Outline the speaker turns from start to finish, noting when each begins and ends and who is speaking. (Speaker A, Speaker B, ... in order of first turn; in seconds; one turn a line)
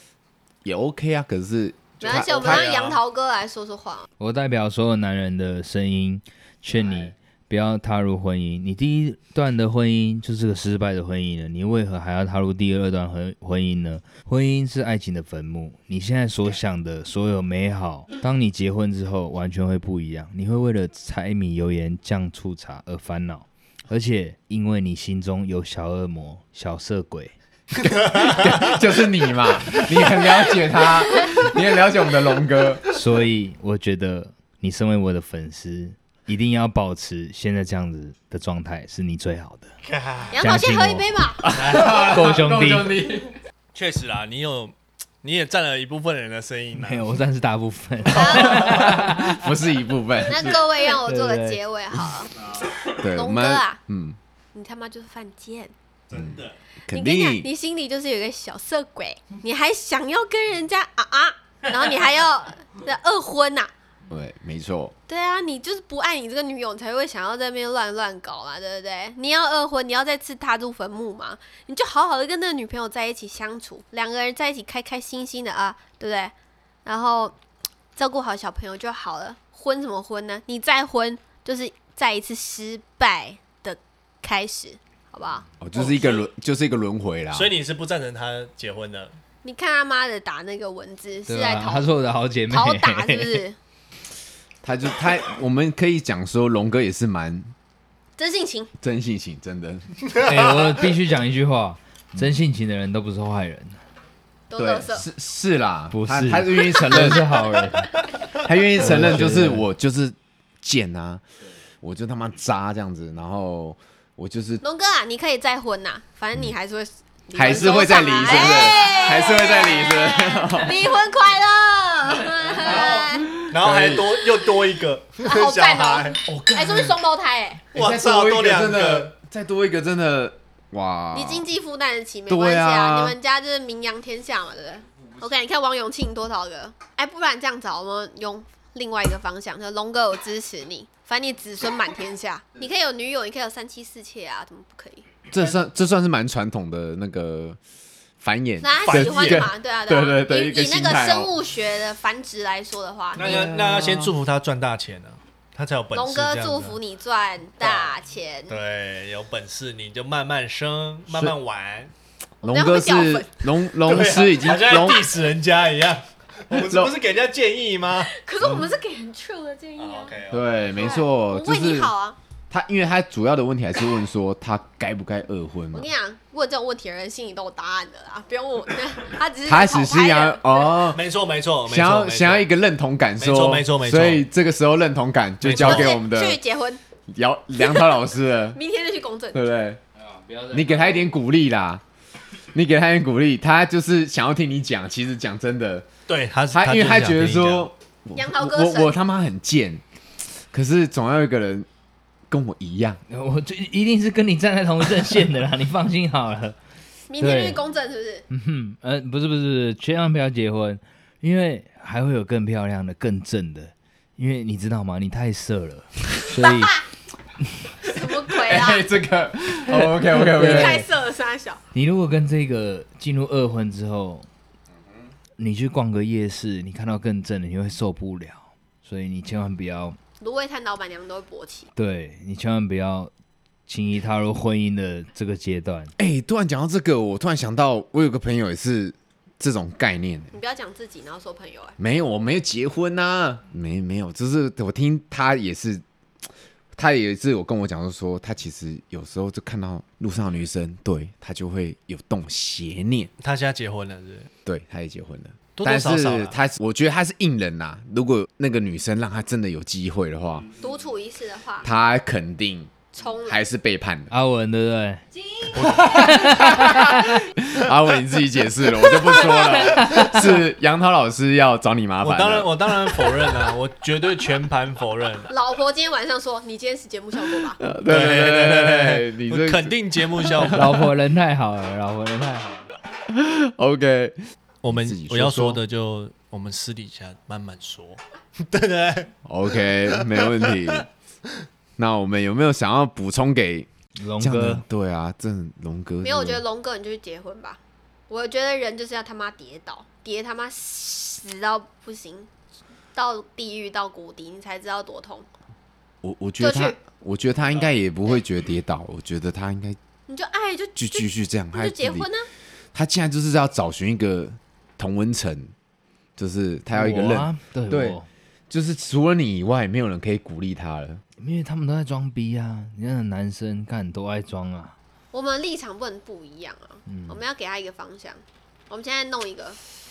Speaker A: 0.6-2.7
Speaker B: 2.0-4.1
Speaker C: 2.0-3.0
Speaker D: 4.2-27.3
Speaker A: 27.8-32.8
Speaker D: 32.9-39.7
Speaker C: 39.8-40.4
Speaker B: 40.3-41.4
Speaker D: 40.4-41.1
Speaker A: 41.4-43.4
Speaker C: 41.6-42.0
Speaker D: 41.9-42.9
Speaker C: 43.7-47.1
Speaker D: 46.8-49.4
Speaker B: 48.1-48.8
Speaker A: 48.5-50.6
Speaker B: 50.2-52.3
Speaker D: 50.9-51.6
Speaker A: 53.0-54.2
Speaker B: 53.1-53.8
Speaker B: 54.5-55.7
Speaker C: 56.1-56.6
Speaker A: 56.1-57.5
Speaker B: 56.9-63.7
Speaker A: 64.1-64.9
Speaker B: 65.1-76.3
Speaker B: 76.8-77.4
Speaker B: 78.0-85.5
Speaker A: 85.6-87.5
Speaker C: 85.7-86.3
Speaker C: 87.3-89.2
Speaker B: 89.4-91.9
Speaker D: 91.3-93.4
Speaker B: 92.5-93.6
Speaker A: 94.6-97.5
Speaker B: 98.2-98.7
Speaker A: 98.8-99.9
Speaker D: 100.2-103.8
Speaker C: 100.4-100.8
Speaker B: 104.5-105.1
Speaker A: 104.6-107.5
Speaker D: 105.9-108.0
Speaker A: 108.4-111.2
Speaker D: 108.8-109.7
Speaker A: 111.8-114.6
Speaker B: 114.6-123.4
Speaker A: 117.3-120.8
Speaker C: 117.5-119.0
Speaker C: 122.6-126.2
Speaker A: 123.2-124.1
Speaker B: 125.2-127.7
Speaker A: 126.2-127.0
Speaker C: 127.7-129.1
Speaker A: 127.7-131.4
Speaker B: 131.1-145.1
Speaker A: 132.3-133.2
Speaker A: 145.3-147.6
Speaker A: 148.2-151.3
Speaker B: 148.6-153.5
Speaker C: 148.8-149.5
Speaker C: 153.1-156.8
Speaker A: 153.2-154.1
Speaker B: 155.9-158.6
Speaker C: 157.6-158.0
Speaker C: 158.5-161.9
Speaker A: 161.1-161.4
Speaker B: 162.4-163.5
Speaker A: 162.4-165.1
Speaker C: 163.8-168.1
Speaker A: 166.5-166.9
Speaker B: 168.0-170.2
Speaker A: 168.4-168.7
Speaker C: 169.8-170.5
Speaker A: 170.3-171.9
Speaker B: 170.7-172.2
Speaker A: 172.5-175.9
Speaker B: 175.7-180.8
Speaker A: 179.4-181.0
Speaker C: 180.9-182.5
Speaker A: 181.7-186.4
Speaker C: 183.2-184.2
Speaker C: 185.4-186.0
Speaker B: 185.6-186.8
Speaker A: 187.1-188.6
Speaker B: 187.6-188.0
Speaker B: 188.5-189.4
Speaker A: 189.3-189.8
Speaker D: 190.0-190.9
Speaker A: 190.5-191.8
Speaker A: 192.5-195.9
Speaker C: 196.1-197.7
Speaker A: 196.5-199.8
Speaker B: 198.1-198.9
Speaker A: 200.4-201.7
Speaker A: 202.3-203.0
Speaker D: 203.1-206.6
Speaker B: 207.1-208.2
Speaker D: 207.2-207.6
Speaker D: 208.3-216.8
Speaker B: 217.8-218.9
Speaker A: 218.3-220.8
Speaker D: 220.1-220.8
Speaker B: 220.3-221.6
Speaker D: 221.7-224.3
Speaker D: 225.4-230.0
Speaker B: 230.2-231.7
Speaker D: 231.8-233.1
Speaker D: 233.7-235.9
Speaker A: 236.0-240.3
Speaker B: 240.3-241.8
Speaker A: 241.8-245.8
Speaker A: 246.8-253.1
Speaker C: 253.2-254.3
Speaker A: 254.4-260.5
Speaker C: 255.6-256.4
Speaker B: 260.6-261.7
Speaker A: 261.6-262.7
Speaker B: 262.9-263.4
Speaker A: 263.2-264.1
Speaker D: 264.1-265.0
Speaker C: 265.5-265.9
Speaker D: 265.8-267.2
Speaker A: 265.8-266.8
Speaker A: 267.5-273.3
Speaker D: 269.2-270.1
Speaker C: 272.0-275.3
Speaker B: 275.3-277.6
Speaker A: 277.6-280.8
Speaker C: 277.9-280.6
Speaker D: 280.5-282.7
Speaker A: 283.1-284.2
Speaker C: 284.6-289.1
Speaker A: 284.7-285.6
Speaker A: 289.2-290.9
Speaker C: 289.7-290.8
Speaker A: 291.8-296.4
Speaker D: 293.9-294.6
Speaker B: 296.0-297.6
Speaker B: 298.1-302.3
Speaker B: 302.9-305.3
Speaker A: 306.0-309.8
Speaker B: 306.4-306.8
Speaker B: 310.1-312.3
Speaker A: 310.8-312.1
Speaker A: 312.7-315.5
Speaker A: 316.2-321.0
Speaker D: 316.7-318.1
Speaker D: 321.2-324.8
Speaker B: 325.1-329.6
Speaker D: 326.9-327.2